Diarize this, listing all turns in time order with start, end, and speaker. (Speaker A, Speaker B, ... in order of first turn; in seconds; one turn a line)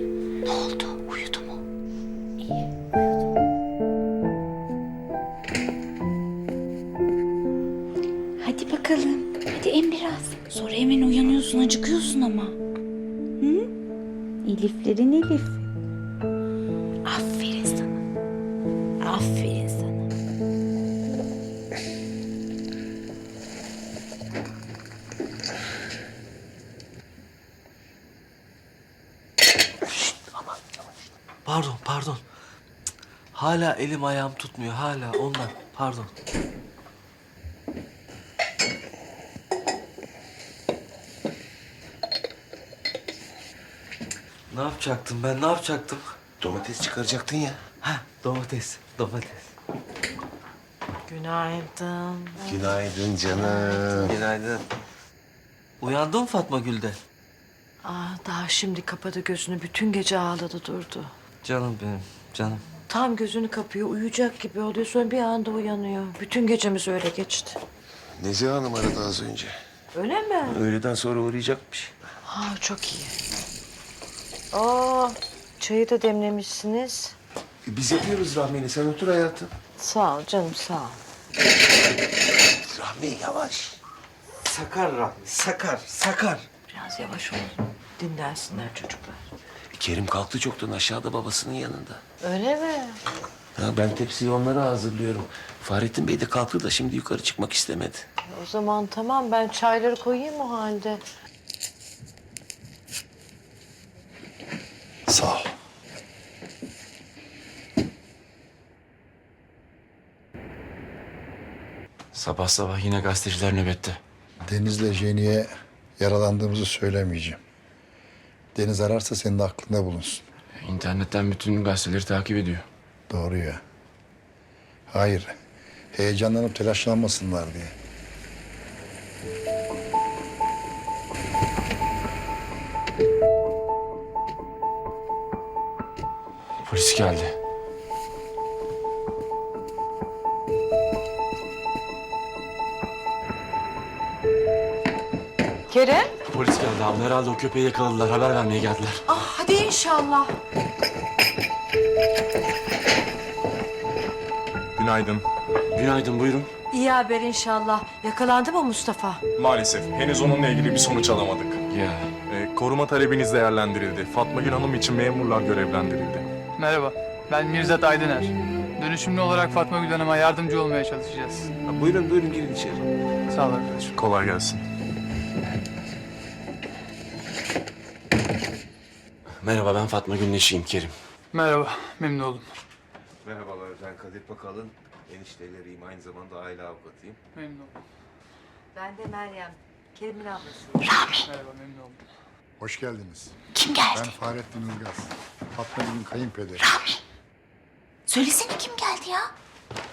Speaker A: 0.5-1.6
Speaker A: 8.4-12.6
Speaker A: 13.4-13.7
Speaker A: 14.4-15.6
Speaker A: 17.1-17.9
Speaker A: 19.0-20.0
Speaker B: 31.4-32.2
Speaker B: 33.4-36.1
Speaker B: 44.5-46.0
Speaker C: 46.4-47.6
Speaker B: 47.8-49.5
Speaker D: 51.1-52.5
Speaker C: 52.4-54.1
Speaker D: 53.4-54.0
Speaker B: 54.0-54.6
Speaker B: 55.8-57.0
Speaker D: 57.8-61.1
Speaker B: 61.4-62.6
Speaker D: 62.9-67.6
Speaker C: 68.2-69.6
Speaker D: 70.0-70.6
Speaker C: 70.4-71.9
Speaker D: 72.2-73.2
Speaker D: 74.5-77.2
Speaker C: 77.7-79.5
Speaker D: 79.8-81.0
Speaker C: 82.7-83.8
Speaker B: 84.5-86.5
Speaker D: 86.7-89.2
Speaker C: 89.8-92.0
Speaker D: 92.2-93.0
Speaker C: 93.6-98.0
Speaker D: 98.3-101.0
Speaker E: 105.1-105.5
Speaker F: 112.1-114.0
Speaker E: 114.5-117.4
Speaker E: 118.5-120.2
Speaker F: 120.6-122.7
Speaker E: 123.1-123.6
Speaker E: 124.9-125.3
Speaker E: 125.9-127.7
Speaker F: 136.7-137.3
Speaker D: 145.7-146.1
Speaker F: 146.3-149.0
Speaker D: 149.1-150.3
Speaker G: 154.8-155.2
Speaker F: 155.7-156.5
Speaker D: 156.7-159.2
Speaker G: 159.4-161.5
Speaker F: 161.7-162.1
Speaker G: 162.3-166.2
Speaker H: 166.6-171.5
Speaker C: 171.7-172.8
Speaker H: 173.3-174.0
Speaker G: 174.0-174.6
Speaker F: 179.4-180.9
Speaker H: 181.3-182.5
Speaker C: 183.2-187.2
Speaker H: 187.3-187.7
Speaker D: 188.7-190.7
Speaker A: 190.8-191.3
Speaker H: 191.2-192.0
Speaker E: 192.6-193.3
Speaker A: 193.6-194.1
Speaker E: 193.9-196.7
Speaker A: 196.6-197.0
Speaker A: 198.1-199.3